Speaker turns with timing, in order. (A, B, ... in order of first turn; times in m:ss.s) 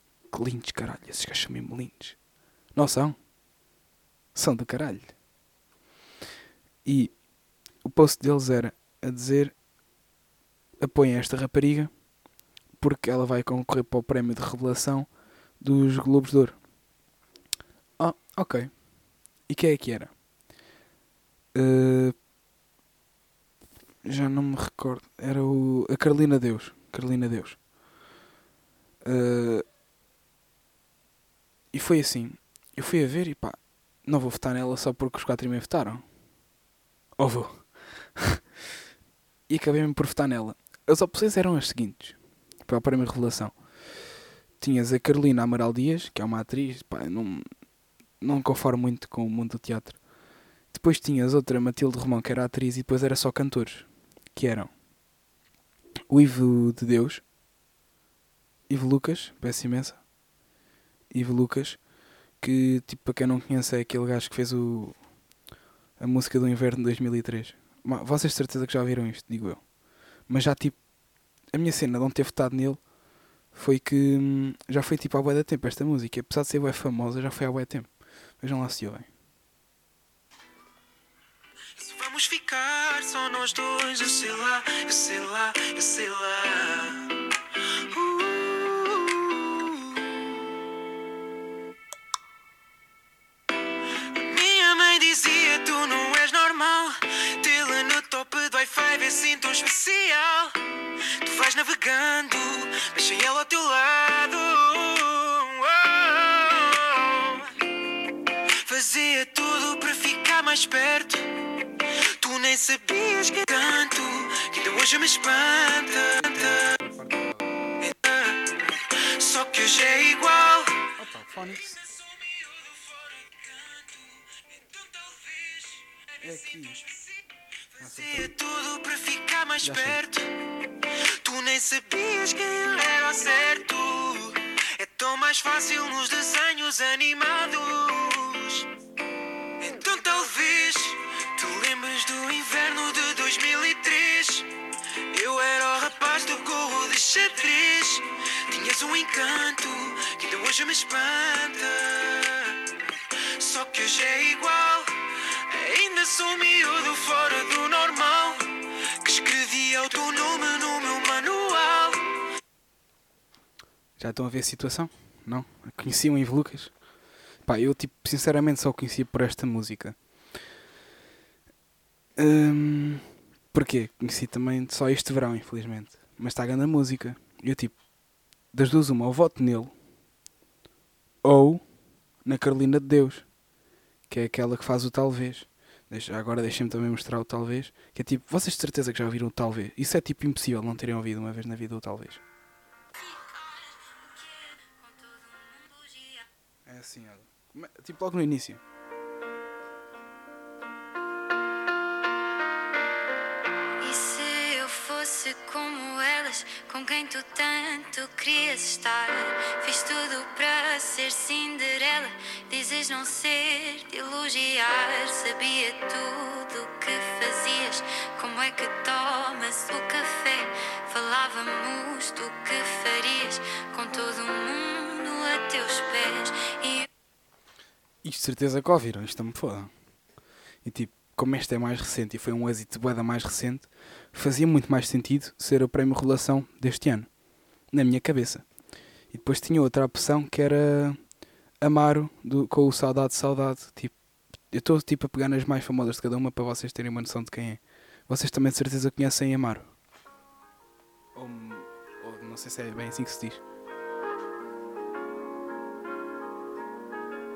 0:00.3-0:02.2 A
0:02.8-0:03.2 A
0:04.4-0:05.1 A
0:06.8-0:07.1 A
0:07.8-0:09.6 A
0:10.8-0:11.9 A
0:12.8-0:16.6 A
0:18.0-0:18.8 A
0:19.5-0:20.1 A
0:21.5-0:22.2 A
0:24.0-0:27.6 A
0:29.0-0:29.6 A
0:31.7-0:36.0 A
0:37.2-0:38.4 A
0:39.5-0:43.6 A
0:44.6-0:47.4 A
0:48.2-0:50.0 A
0:50.7-0:54.7 A
0:56.1-0:57.2 A
0:58.7-1:00.0 A
1:01.1-1:01.8 A
1:02.4-1:05.0 A
1:06.0-1:09.6 A
1:10.3-1:10.8 A
1:11.5-1:12.8 A
1:13.5-1:19.1 A
1:21.8-1:30.2 B
1:34.0-1:47.5 B
1:48.6-1:56.8 B
1:56.2-1:57.6 A
1:57.8-2:00.9 B
2:01.0-2:01.8 A
2:01.6-2:07.2 B
2:06.2-2:06.8 A
2:07.8-2:18.7 B
2:07.8-2:08.3 A
2:09.6-2:10.0 A
2:19.6-2:24.5 B
2:25.1-2:42.2 B
2:44.0-2:46.7 A
2:47.5-2:50.0 A
2:52.2-2:57.8 A
2:58.5-2:59.7 A
3:01.2-3:01.6 A
3:02.2-3:03.3 A
3:04.1-3:12.2 A
3:13.2-3:16.3 C
3:16.7-3:18.6 A
3:23.8-3:46.9 C
3:48.0-3:49.7 A
3:50.6-3:57.1 A
3:57.7-3:58.5 A
3:59.1-4:01.0 A
4:01.6-4:04.0 A
4:04.5-4:09.7 A
4:11.2-4:13.4 A